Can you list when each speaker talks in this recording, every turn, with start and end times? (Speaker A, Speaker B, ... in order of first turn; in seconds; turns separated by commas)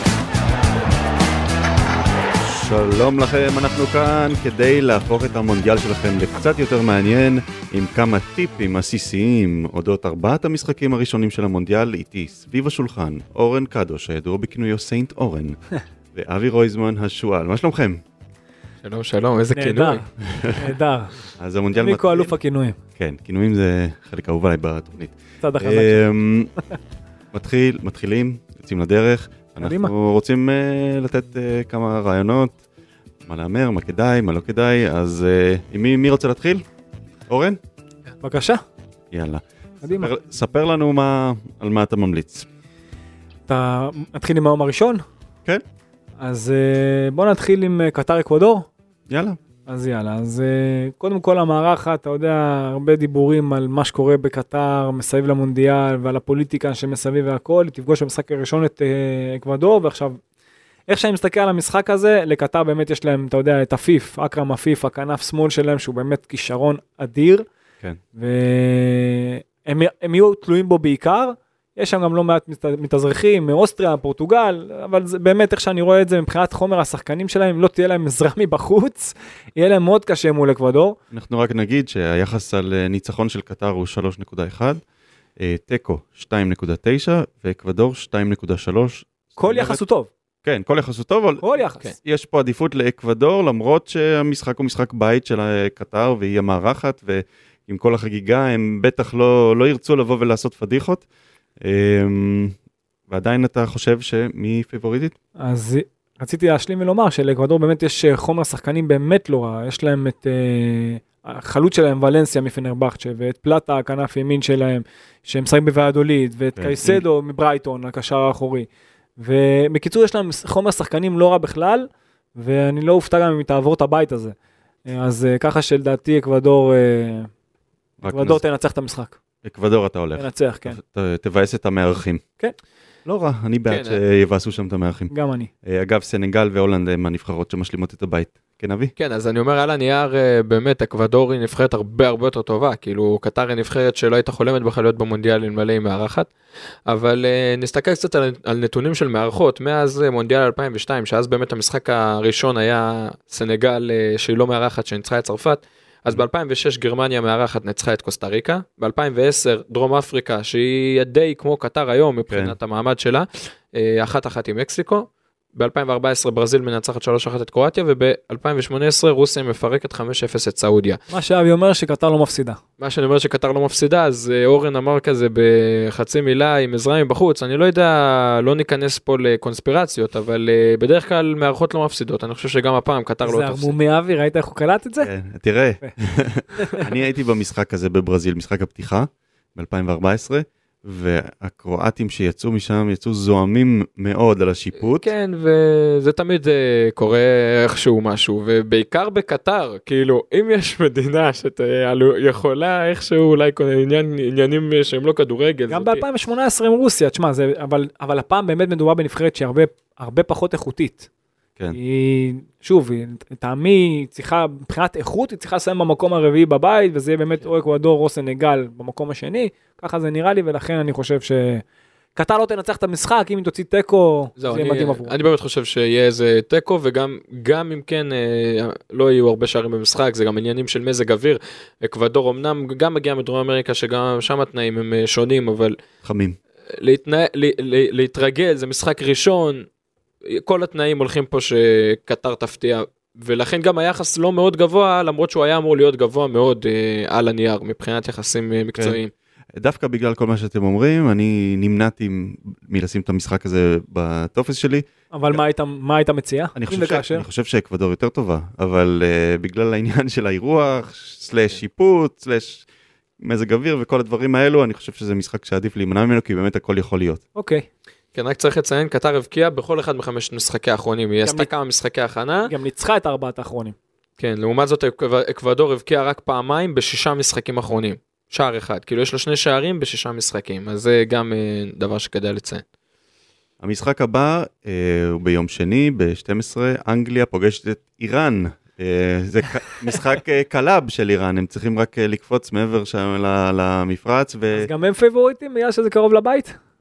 Speaker A: 2.4-15.6, Speaker A: 16.1-18.0, Speaker B: 18.8-20.0, Speaker C: 19.5-20.1, Speaker A: 20.2-20.7, Speaker C: 20.6-21.2, Speaker A: 21.4-22.3, Speaker C: 21.8-22.8, Speaker A: 23.0-26.5, Speaker C: 25.4-26.0, Speaker A: 27.3-32.6, Speaker C: 29.6-29.9, Speaker A: 33.2-36.6, Speaker A: 37.3-37.6, Speaker C: 38.2-38.6, Speaker A: 39.1-42.5, Speaker C: 39.8-40.1, Speaker C: 43.5-45.0, Speaker C: 46.2-48.7, Speaker A: 49.1-49.4, Speaker C: 49.7-60.2, Speaker C: 60.9-67.5, Speaker C: 68.2-81.0, Speaker A: 81.1-84.8, Speaker A: 85.4-89.8, Speaker C: 89.4-90.1, Speaker A: 90.4-101.0, Speaker C: 91.4-91.9, Speaker A: 101.6-102.5, Speaker A: 103.1-105.2, Speaker C: 105.4-124.3, Speaker A: 116.6-117.0, Speaker C: 124.9-127.3, Speaker A: 128.0-128.4, Speaker C: 128.0-129.2, Speaker A: 129.4-132.2, Speaker C: 130.2-130.8, Speaker A: 133.1-135.1, Speaker B: 133.7-134.0, Speaker C: 135.1-135.5, Speaker A: 135.6-138.9, Speaker B: 139.0-146.3, Speaker B: 146.9-171.0, Speaker A: 162.3-162.6, Speaker C: 171.1-172.6, Speaker B: 172.8-183.8, Speaker C: 183.2-185.1, Speaker A: 185.0-195.1, Speaker C: 186.6-186.8, Speaker B: 194.8-206.0, Speaker C: 205.7-211.1, Speaker C: 211.7-221.6, Speaker C: 222.2-225.2, Speaker B: 224.4-235.8, Speaker A: 236.0-236.4, Speaker B: 236.7-239.7, Speaker B: 240.2-249.1, Speaker A: 249.6-255.4, Speaker C: 255.1-257.2, Speaker A: 256.6-262.6, Speaker A: 263.2-267.2, Speaker C: 267.4-267.7, Speaker B: 268.1-272.5, Speaker C: 272.5-273.8, Speaker B: 274.2-282.6, Speaker A: 283.6-294.7, Speaker C: 294.5-296.6